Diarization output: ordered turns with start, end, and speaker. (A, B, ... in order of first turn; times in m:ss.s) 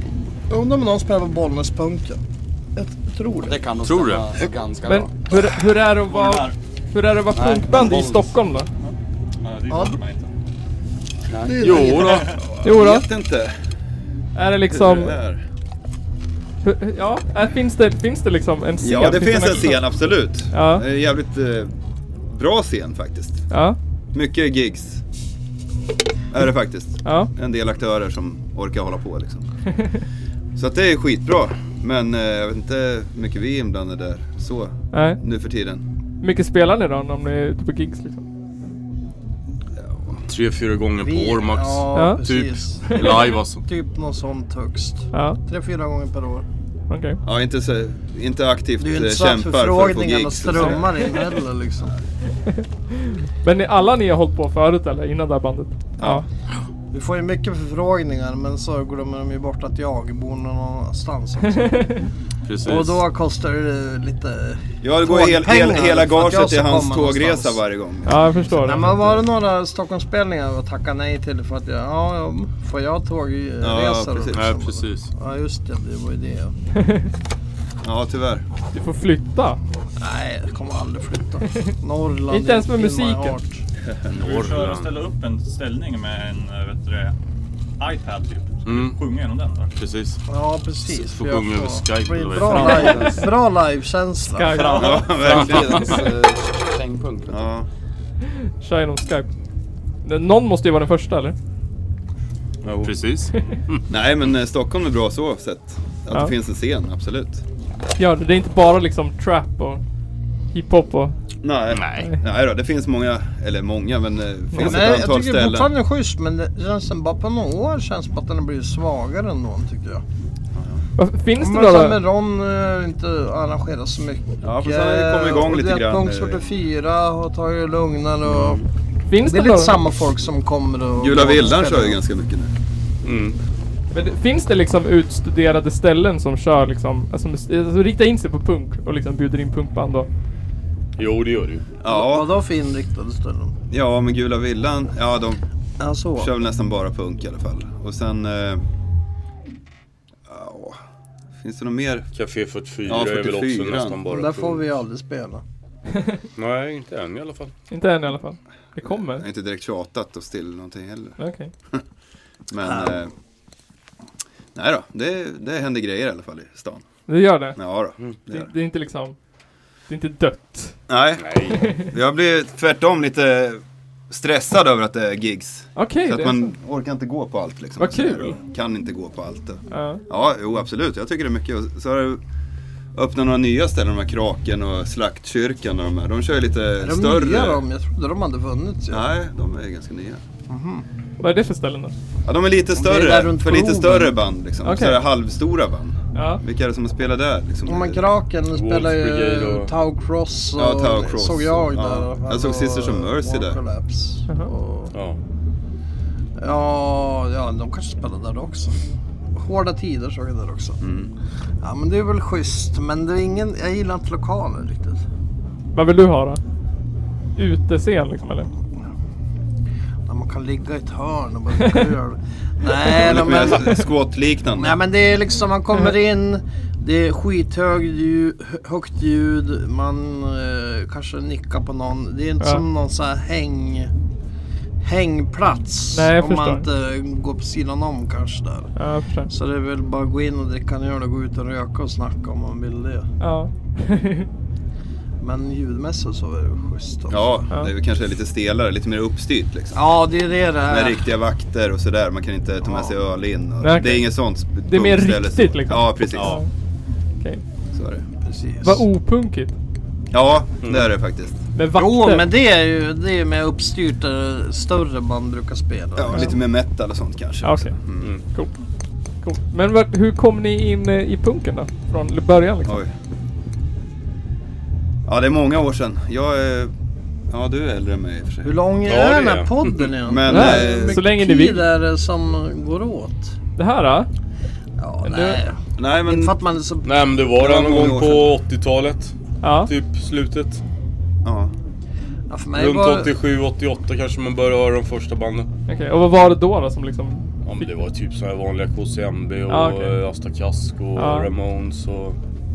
0:00.5-0:02.2 A
0:02.8-0:03.6 A
0:03.4-0:05.1 B
0:03.8-0:04.3 C
0:04.8-0:08.7 D
0:06.1-0:06.5 E
0:07.3-0:08.3 B
0:08.8-0:10.3 E
0:09.7-0:10.0 A
0:11.3-0:12.0 B
0:11.4-0:12.3 A
0:11.6-0:12.3 C
0:12.0-0:12.4 E
0:12.6-0:13.5 F
0:12.6-0:13.1 D
0:14.3-0:15.2 D
0:14.7-0:15.4 F
0:16.6-0:19.8 D
0:18.8-0:21.7 F
0:20.5-0:20.8 D
0:22.3-0:23.4 F
0:23.5-0:23.8 D
0:24.1-0:25.0 F
0:26.3-0:29.4 F
0:27.0-0:27.3 D
0:30.6-0:35.8 F
0:34.9-0:35.2 D
0:36.2-0:38.2 D
0:39.8-0:40.2 F
0:40.3-0:43.6 C
0:41.0-0:46.4 A
0:41.9-0:42.2 D
0:42.8-0:43.3 D
0:45.1-0:45.4 D
0:46.9-0:47.2 D
0:47.2-0:51.3 F
0:48.8-0:51.9 A
0:53.4-0:56.2 D
0:56.0-0:56.2 F
0:56.9-1:02.0 A
1:02.5-1:03.0 C
1:02.6-1:07.6 A
1:04.8-1:09.2 F
1:08.0-1:08.8 D
1:08.6-1:16.5 A
1:13.6-1:14.6 F
1:14.3-1:15.1 C
1:16.8-1:17.1 D
1:17.8-1:18.4 F
1:18.7-1:19.6 D
1:20.0-1:23.6 A
1:22.3-1:23.4 D
1:24.1-1:25.0 C
1:24.1-1:27.1 E
1:27.8-1:29.7 E
1:28.6-1:29.0 C
1:29.8-1:30.2 C
1:30.3-1:34.8 A
1:30.8-1:33.2 C
1:32.5-1:33.0 D
1:32.5-1:33.3 B
1:34.3-1:35.1 D
1:34.7-1:37.5 B
1:34.7-1:36.0 F
1:37.3-1:37.7 F
1:38.6-1:39.3 D
1:40.0-1:41.4 D
1:42.7-1:43.8 C
1:43.9-1:47.4 F
1:48.0-1:49.8 D
1:50.5-1:51.1 D
1:51.4-1:55.7 F
1:51.7-1:52.1 C
1:54.6-2:00.0 A
2:00.5-2:00.8 F
2:01.0-2:02.0 D
2:01.4-2:08.6 A
2:04.4-2:06.4 F
2:09.1-2:09.8 D
2:09.2-2:12.0 A
2:11.0-2:12.5 F
2:13.0-2:13.4 C
2:13.9-2:20.1 D
2:21.0-2:21.6 C
2:21.8-2:22.3 F
2:21.9-2:23.6 A
2:23.7-2:25.4 F
2:25.8-2:26.3 A
2:26.2-2:28.6 F
2:30.3-2:30.8 F
2:31.4-2:32.1 F
2:32.1-2:34.6 C
2:32.8-2:34.0 F
2:34.0-2:35.4 A
2:36.4-2:37.5 C
2:37.7-2:39.2 D
2:38.8-2:41.2 F
2:41.2-2:41.5 D
2:42.5-2:43.1 F
2:42.6-2:43.0 A
2:44.5-2:46.8 F
2:47.1-2:47.6 D
2:47.6-2:48.5 F
2:48.3-2:49.2 D
2:49.9-2:50.8 D
2:50.9-3:02.2 F
2:51.2-2:51.6 C
2:51.5-2:51.9 D
2:55.8-2:56.5 D
2:57.8-2:58.4 D
2:59.7-3:00.0 D
3:02.9-3:07.6 F
3:06.8-3:09.0 A
3:08.9-3:10.2 F
3:10.5-3:10.8 A
3:11.2-3:11.9 D
3:12.2-3:18.0 F
3:12.7-3:14.1 A
3:14.6-3:15.0 D
3:16.1-3:16.4 D
3:17.6-3:24.9 A
3:18.5-3:19.7 C
3:20.6-3:23.6 F
3:24.9-3:25.2 C
3:26.4-3:28.8 A
3:29.3-3:30.8 A
3:30.8-3:31.1 F
3:31.6-3:35.0 A
3:35.7-3:36.4 D
3:37.4-3:38.5 D
3:40.0-3:43.9 A
3:42.8-3:44.8 F
3:44.6-3:53.9 A
3:54.8-3:58.7 A
3:55.9-3:56.6 D
3:58.8-3:59.3 D
3:59.3-4:03.1 A
4:03.2-4:04.3 D
4:05.2-4:07.4 A
4:07.1-4:09.8 F
4:09.7-4:11.0 A
4:10.7-4:16.4 F
4:12.6-4:12.9 A
4:13.6-4:16.5 D
4:17.7-4:18.0 F
4:18.2-4:18.8 A
4:18.6-4:19.5 D
4:20.1-4:21.4 F
4:21.5-4:22.2 D
4:21.7-4:26.4 A
4:25.9-4:28.1 F
4:27.4-4:27.7 D
4:29.2-4:32.8 D
4:32.6-4:32.9 F
4:35.0-4:36.7 F
4:37.3-4:38.5 F
4:38.4-4:43.3 A
4:38.8-4:39.9 C
4:40.0-4:41.0 F
4:40.2-4:41.6 D
4:43.6-4:44.1 D
4:44.8-4:46.9 A
4:45.0-4:45.4 D
4:45.8-4:46.3 F
4:46.8-4:49.1 C
4:47.4-4:48.3 F
4:49.4-4:49.7 D
4:49.6-4:50.6 C
4:51.2-4:51.5 F
4:52.3-4:53.1 A
4:52.5-4:55.5 C
4:55.7-4:57.7 D
4:57.4-5:02.2 C
4:59.5-5:00.0 D
5:01.0-5:01.3 D